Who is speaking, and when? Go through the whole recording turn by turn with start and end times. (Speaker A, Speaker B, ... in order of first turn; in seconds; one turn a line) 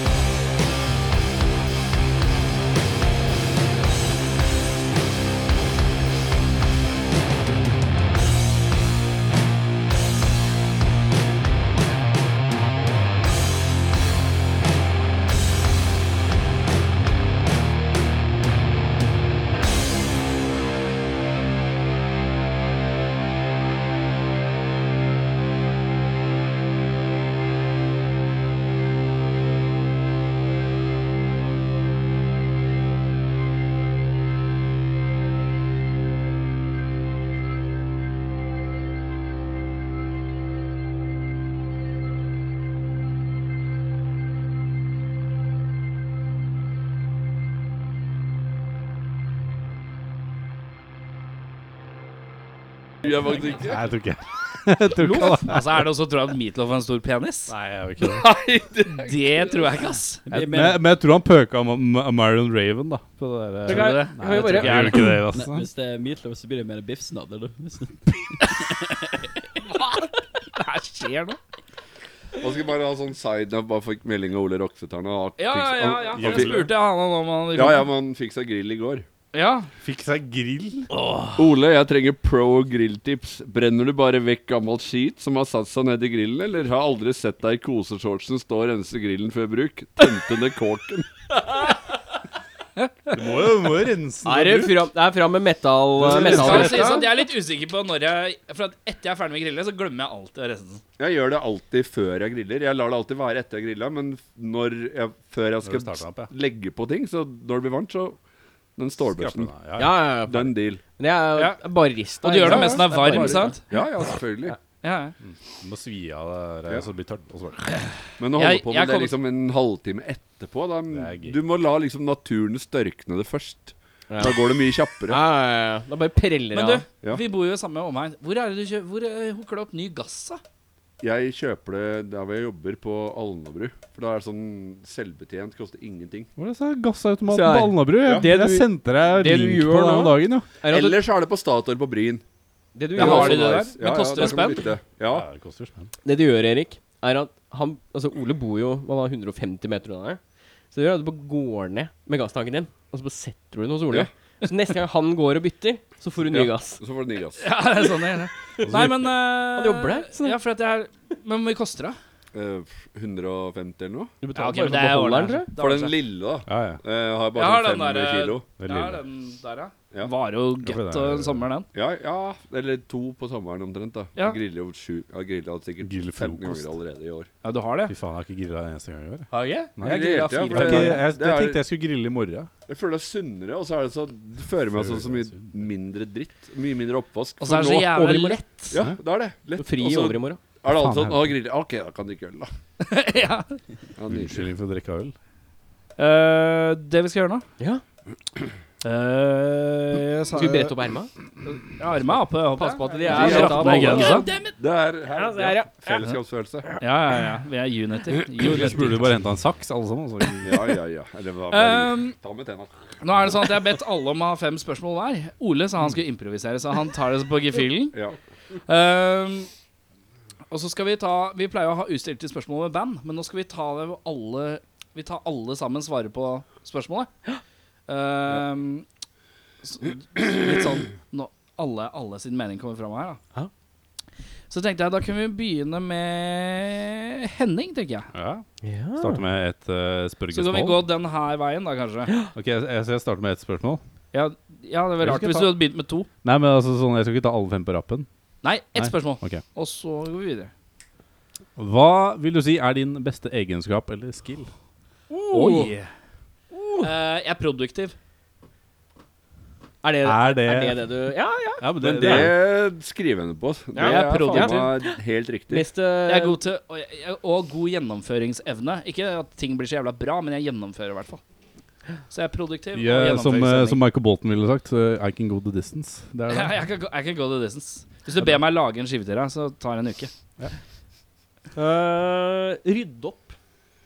Speaker A: 53.0-53.8
Speaker B: 53.5-55.9
Speaker C: 55.0-57.5
Speaker B: 57.5-58.3
Speaker A: 58.0-59.6
Speaker C: 58.9-60.2
Speaker D: 60.2-60.8
Speaker B: 60.3-65.7
Speaker E: 63.7-65.1
Speaker C: 63.7-65.1
Speaker D: 64.6-69.6
Speaker C: 69.7-71.4
Speaker A: 72.4-76.7
Speaker C: 75.4-77.9
Speaker B: 76.1-76.7
Speaker A: 77.5-79.0
Speaker C: 79.3-79.7
Speaker B: 79.8-80.9
Speaker C: 81.0-81.3
Speaker A: 81.3-91.1
Speaker C: 92.8-93.2
Speaker B: 93.1-94.9
Speaker E: 94.2-97.1
Speaker B: 96.0-97.0
Speaker C: 96.1-100.8
Speaker A: 96.1-96.9
Speaker A: 101.0-108.2
Speaker B: 105.6-106.3
Speaker A: 108.8-109.5
Speaker B: 109.0-110.0
Speaker E: 109.8-113.8
Speaker A: 110.3-110.8
Speaker C: 111.4-111.6
Speaker C: 112.2-113.6
Speaker A: 112.4-114.6
Speaker C: 114.8-115.2
Speaker B: 115.2-117.8
Speaker A: 118.2-125.2
Speaker C: 118.4-119.2
Speaker B: 120.9-121.4
Speaker E: 124.1-124.4
Speaker E: 125.1-126.8
Speaker C: 126.5-130.4
Speaker A: 131.0-136.3
Speaker B: 136.4-140.5
Speaker E: 137.3-141.0
Speaker A: 140.7-142.2
Speaker E: 142.8-144.4
Speaker A: 142.9-145.3
Speaker C: 143.0-144.7
Speaker B: 145.1-145.9
Speaker E: 146.1-150.2
Speaker E: 150.7-156.8
Speaker A: 156.3-157.5
Speaker C: 157.4-162.0
Speaker B: 158.6-159.1
Speaker E: 159.6-160.4
Speaker A: 162.3-164.1
Speaker E: 164.2-165.5
Speaker C: 164.3-166.0
Speaker A: 165.6-168.5
Speaker B: 166.5-166.8
Speaker C: 167.3-171.7
Speaker B: 168.6-169.0
Speaker B: 170.6-171.5
Speaker A: 171.7-177.3
Speaker B: 175.8-176.8
Speaker C: 177.4-177.9
Speaker B: 177.9-182.5
Speaker E: 179.3-179.7
Speaker C: 179.8-181.0
Speaker A: 179.8-181.6
Speaker A: 182.7-188.0
Speaker B: 184.7-185.6
Speaker C: 187.4-188.8
Speaker E: 187.9-188.4
Speaker A: 188.7-192.5
Speaker E: 189.6-190.4
Speaker B: 190.7-191.3
Speaker C: 192.8-193.6
Speaker A: 194.0-194.5
Speaker B: 194.1-195.2
Speaker C: 196.0-197.4
Speaker C: 198.8-200.8
Speaker E: 200.3-201.1
Speaker C: 201.5-204.4
Speaker E: 202.6-204.3
Speaker A: 203.1-206.8
Speaker B: 203.2-204.2
Speaker E: 205.1-206.1
Speaker C: 206.8-209.1
Speaker B: 208.4-210.8
Speaker A: 210.4-213.4
Speaker C: 211.5-212.2
Speaker C: 213.0-218.0
Speaker C: 218.7-219.5
Speaker C: 220.5-227.1
Speaker C: 227.9-228.9
Speaker C: 229.6-233.2
Speaker C: 234.5-238.1
Speaker B: 238.1-238.5
Speaker E: 238.6-239.2
Speaker B: 239.0-240.8
Speaker C: 240.3-242.1
Speaker B: 242.3-243.8
Speaker C: 244.1-246.1
Speaker B: 245.0-245.6
Speaker B: 246.2-248.1
Speaker C: 248.4-250.5
Speaker B: 248.8-249.4
Speaker B: 251.6-254.5
Speaker E: 255.1-255.7
Speaker B: 255.3-255.9
Speaker E: 256.5-256.9
Speaker C: 256.8-257.9
Speaker E: 259.8-262.3
Speaker B: 260.0-260.8
Speaker B: 261.6-262.4
Speaker A: 261.8-265.7
Speaker E: 263.7-264.7
Speaker C: 263.8-264.8
Speaker E: 265.5-266.4
Speaker C: 266.1-271.2
Speaker C: 272.1-273.8
Speaker B: 272.8-276.6
Speaker C: 276.3-280.1
Speaker E: 281.6-283.4